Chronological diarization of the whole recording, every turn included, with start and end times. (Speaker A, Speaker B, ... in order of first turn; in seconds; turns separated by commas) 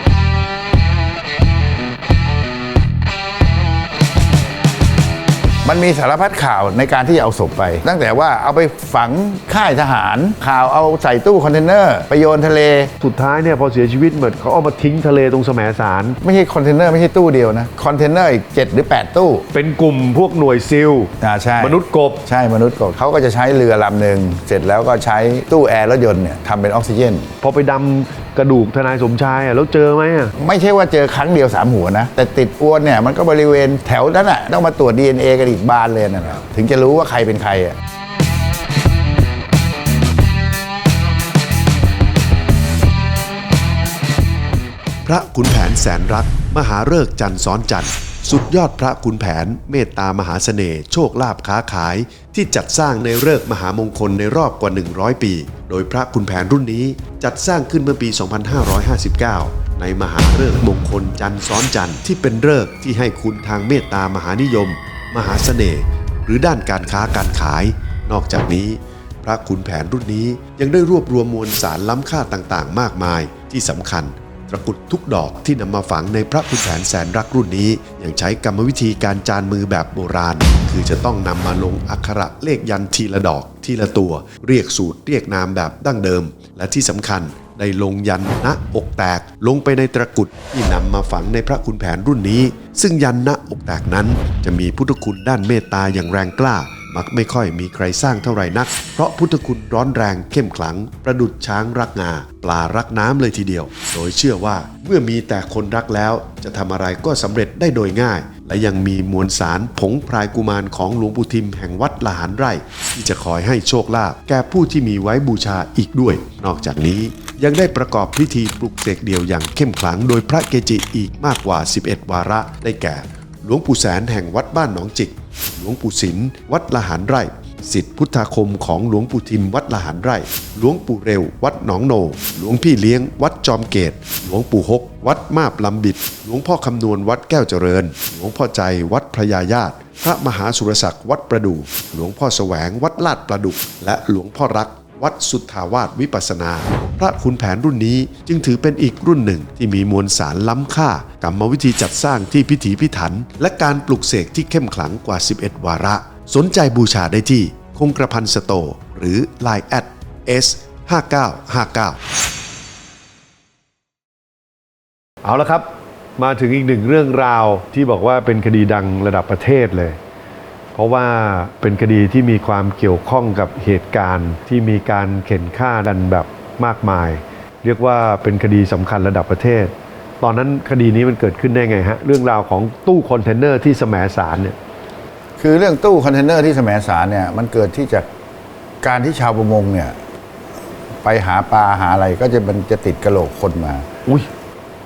Speaker A: 5.6-12.9, Speaker B: 13.0-16.2, Speaker A: 16.2-19.5, Speaker B: 19.5-22.2, Speaker A: 21.2-27.3, Speaker B: 27.4-30.3, Speaker A: 30.4-37.8, Speaker C: 45.0-162.0, Speaker B: 165.2-170.0, Speaker B: 170.7-184.6, Speaker A: 185.4-188.1, Speaker A: 188.8-189.9, Speaker A: 191.0-193.8